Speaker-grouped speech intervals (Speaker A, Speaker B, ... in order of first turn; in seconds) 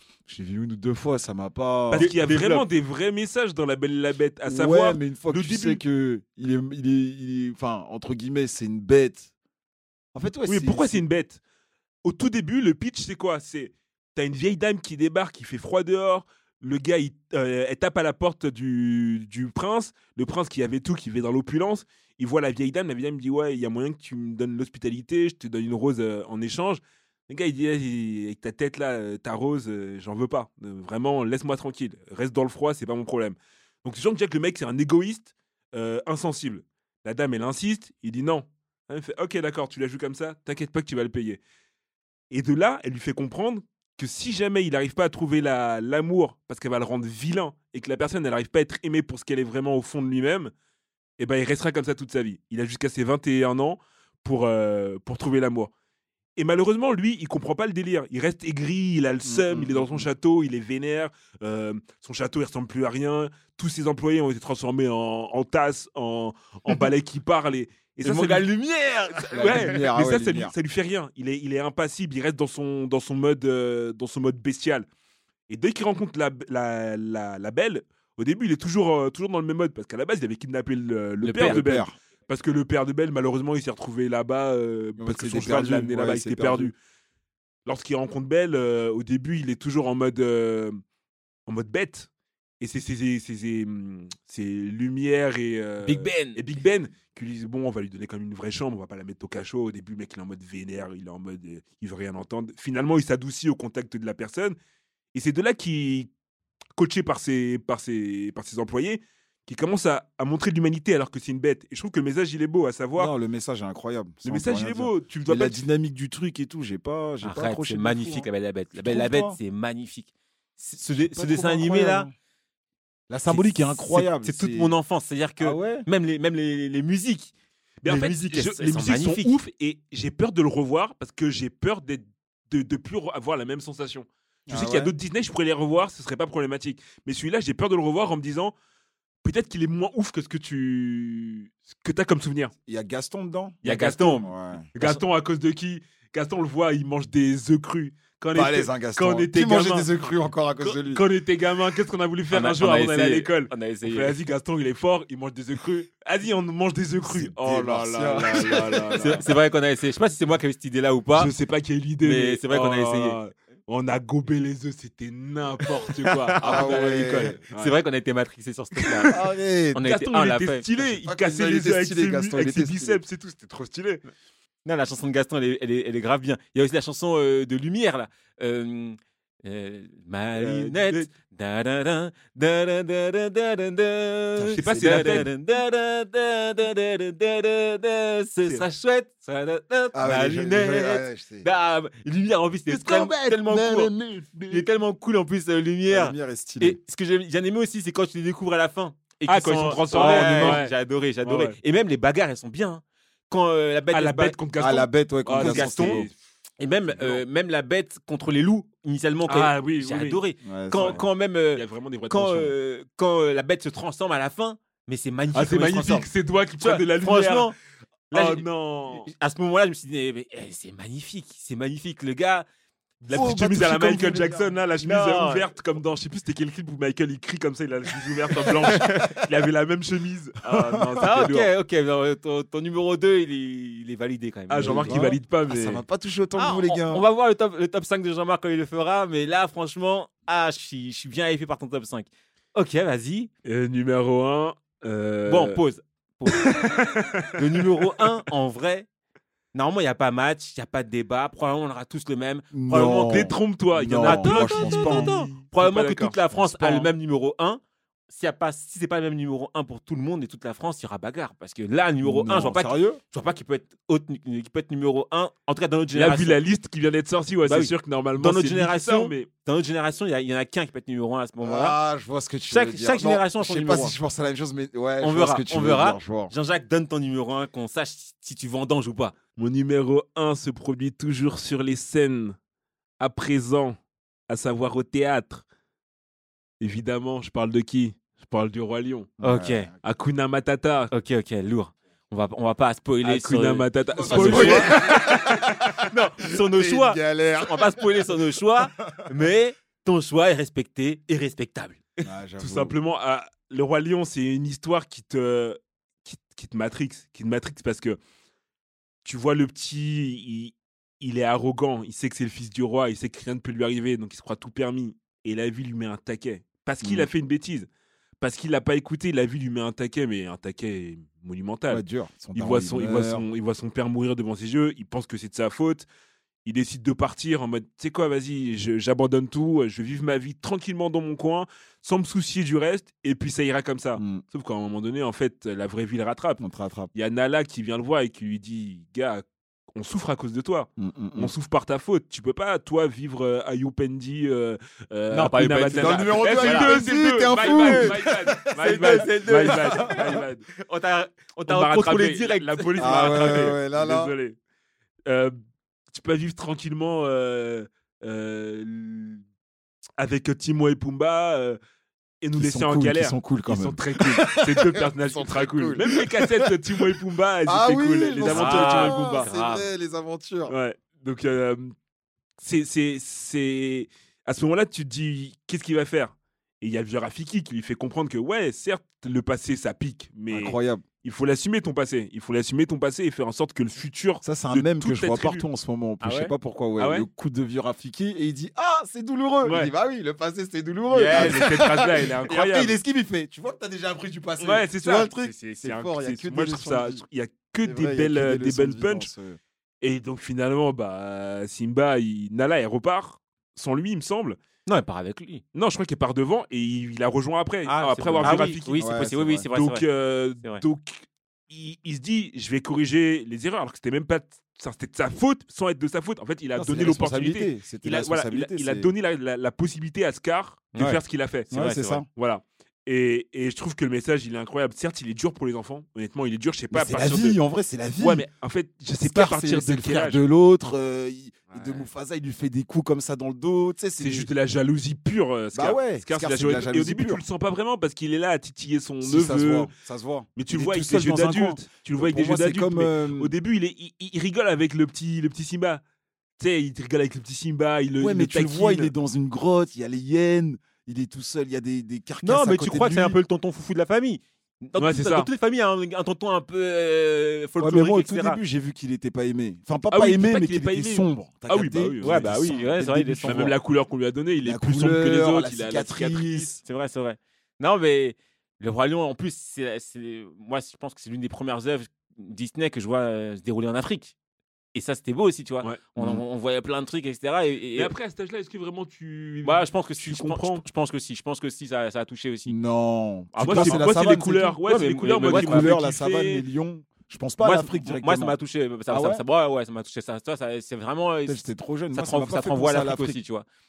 Speaker A: 0.3-2.1, 4.5-9.3, 10.1-11.0, 59.2-60.1, 69.3-70.5, 81.4-82.0, 85.0-86.7, 113.0-119.4, 121.0-122.1, 123.1-124.7, 125.4-125.9, 134.5-134.9, 142.7-143.7, 144.2-144.6, 148.3-151.0, 157.1-159.2, 166.4-167.4, 169.1-169.8, 171.1-173.0, 184.8-185.2, 189.9-191.5, 195.9-196.8, 199.9-200.6, 204.6-206.1, 210.4-211.0, 223.1-224.5, 230.5-231.3, 234.6-237.0, 252.5-255.1, 262.0-263.0, 271.4-276.3, 289.2-289.8, 293.9-298.2, 302.0-302.7, 316.8-317.1, 321.7-323.2, 334.0-334.2, 336.4-336.9, 340.8-341.3, 345.8-350.2, 352.8-354.1, 362.3-366.8, 367.5-370.6, 380.3-380.9, 384.2-397.0, 397.6-399.4, 408.2-409.5, 416.6-418.9, 421.5-422.1, 426.7-428.3, 429.0-434.3, 435.5-437.2, 439.0-443.3, 448.0-453.2, 457.6-463.6, 464.4-466.6, 476.0-476.2, 482.5-484.6, 485.2-488.4, 488.9-489.2, 491.3-493.2
Speaker B: 1.9-5.8, 10.5-11.4, 12.1-41.4, 42.3-50.5, 51.2-55.7, 56.4-68.5, 69.3-74.9, 75.5-86.8, 87.7-90.8, 91.5-92.1, 92.6-104.6, 105.1-106.1, 106.8-113.1, 114.2-115.6, 127.8-138.6, 139.2-142.5, 143.6-149.9, 150.6-159.2, 161.2-167.8, 168.8-169.2, 169.9-174.0, 180.4-181.1, 184.4-185.3, 192.7-194.6, 199.3-201.6, 203.9-206.2, 206.9-207.2, 209.3-210.2, 210.8-212.5, 215.3-217.5, 218.1-219.1, 223.1-231.5, 234.5-235.8, 243.4-245.6, 246.3-248.1, 252.9-256.9, 265.9-269.3, 279.4-282.4, 283.0-283.8, 284.3-285.4, 286.6-289.1, 289.8-290.9, 293.0-294.7, 302.4-308.0, 309.0-317.7, 318.2-325.9, 326.4-336.4, 336.9-350.5, 351.5-354.4, 355.1-355.4, 355.9-359.2, 360.0-361.6, 362.2-369.3, 370.5-371.7, 372.4-385.4, 386.8-387.1, 389.4-389.7, 391.1-392.8, 394.4-399.1, 399.8-404.4, 405.5-421.5, 422.1-427.4, 428.0-430.2, 434.0-439.7, 440.4-445.8, 446.4-448.9, 454.8-455.3, 459.9-462.4, 463.2-466.5, 477.8-480.6, 483.4-486.4
Speaker C: 1.9-2.6, 68.0-69.8, 81.2-81.6, 95.8-96.4, 117.2-122.1, 123.3-127.3, 127.9-129.3, 143.7-145.0, 152.3-154.1, 159.0-161.3, 162.0-163.2, 166.1-169.2, 169.7-170.7, 174.7-193.9, 194.5-204.4, 205.4-206.1, 206.6-216.1, 216.6-217.6, 218.1-222.5, 224.8-225.5, 228.4-229.2, 230.4-235.1, 236.4-243.3, 245.3-246.6, 247.3-248.9, 249.5-253.3, 254.0-266.4, 267.5-271.8, 272.5-273.9, 275.0-279.1, 289.2-289.7, 290.9-295.3, 295.9-301.8, 345.1-346.8, 347.3-353.5, 368.2-369.7, 386.0-386.3, 390.9-391.5, 404.7-405.4, 407.7-409.9, 421.5-422.0, 452.2-458.4, 462.0-463.5, 466.6-474.1, 474.7-477.9, 479.4-482.6, 483.3-483.9, 484.6-485.8, 487.4-493.4